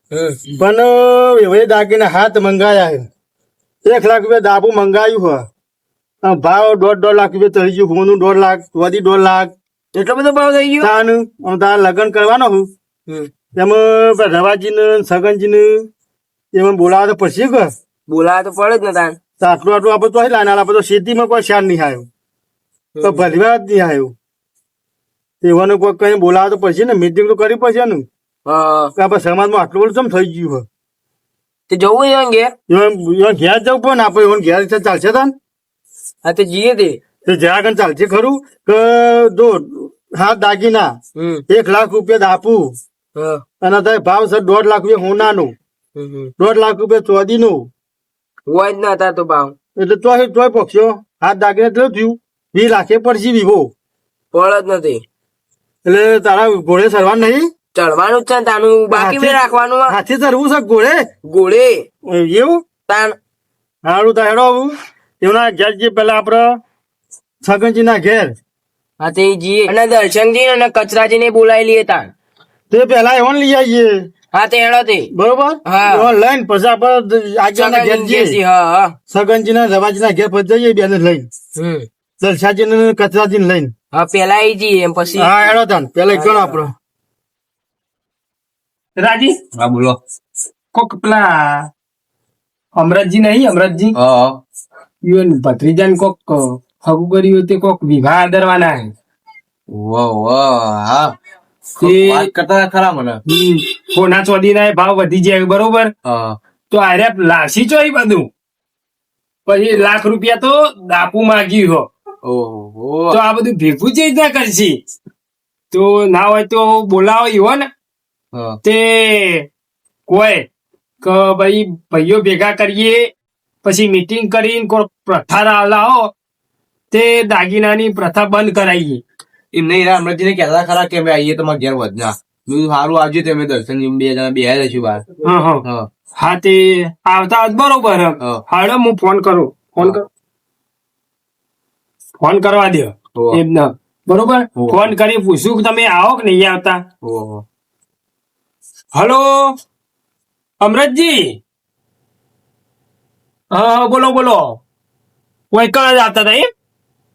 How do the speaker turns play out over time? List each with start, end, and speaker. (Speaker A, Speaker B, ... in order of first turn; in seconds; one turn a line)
Speaker A: 0.1-0.4
Speaker B: 0.5-3.1
Speaker B: 3.8-5.5
Speaker B: 6.2-9.5
Speaker A: 9.9-10.9
Speaker B: 10.8-12.7
Speaker B: 13.5-15.9
Speaker B: 16.5-17.7
Speaker A: 18.1-19.2
Speaker B: 19.4-22.1
Speaker A: 22.9-23.3
Speaker B: 23.0-24.1
Speaker B: 25.4-28.1
Speaker A: 28.4-28.9
Speaker B: 28.9-30.6
Speaker A: 31.7-32.5
Speaker B: 32.7-35.3
Speaker A: 36.2-37.0
Speaker B: 37.2-40.9
Speaker A: 41.1-41.4
Speaker B: 41.5-42.8
Speaker A: 43.1-43.4
Speaker B: 43.6-45.5
Speaker A: 46.0-46.3
Speaker B: 46.4-47.7
Speaker A: 48.5-49.5
Speaker B: 49.8-53.7
Speaker A: 54.3-55.0
Speaker B: 55.8-57.5
Speaker A: 57.7-60.0
Speaker B: 58.9-61.0
Speaker A: 61.2-61.9
Speaker B: 62.0-62.6
Speaker A: 62.9-63.2
Speaker B: 63.8-66.6
Speaker B: 67.4-68.3
Speaker A: 69.0-72.1
Speaker B: 72.7-74.1
Speaker A: 74.3-75.1
Speaker B: 75.1-78.4
Speaker A: 75.6-76.1
Speaker A: 77.5-78.9
Speaker B: 79.1-81.3
Speaker A: 81.5-81.9
Speaker B: 82.2-83.7
Speaker A: 83.9-85.3
Speaker B: 85.1-86.7
Speaker A: 86.1-86.6
Speaker C: 89.0-89.3
Speaker D: 89.5-90.0
Speaker C: 90.7-91.7
Speaker C: 92.8-93.9
Speaker D: 93.9-94.4
Speaker C: 95.0-98.9
Speaker D: 99.7-101.1
Speaker D: 101.8-103.2
Speaker C: 101.8-102.3
Speaker C: 103.3-105.9
Speaker D: 106.0-106.4
Speaker C: 106.7-108.3
Speaker C: 109.5-111.9
Speaker D: 112.2-113.2
Speaker C: 113.1-114.8
Speaker C: 115.7-117.7
Speaker C: 118.6-119.5
Speaker C: 120.1-120.5
Speaker C: 121.0-123.1
Speaker C: 123.6-126.1
Speaker C: 126.9-129.0
Speaker D: 129.5-135.1
Speaker C: 135.2-135.6
Speaker C: 136.2-140.1
Speaker C: 142.2-146.8
Speaker D: 143.2-143.4
Speaker D: 144.6-144.9
Speaker D: 147.0-147.4
Speaker C: 148.9-149.5
Speaker C: 150.6-151.4
Speaker C: 153.5-154.6
Speaker C: 155.5-156.5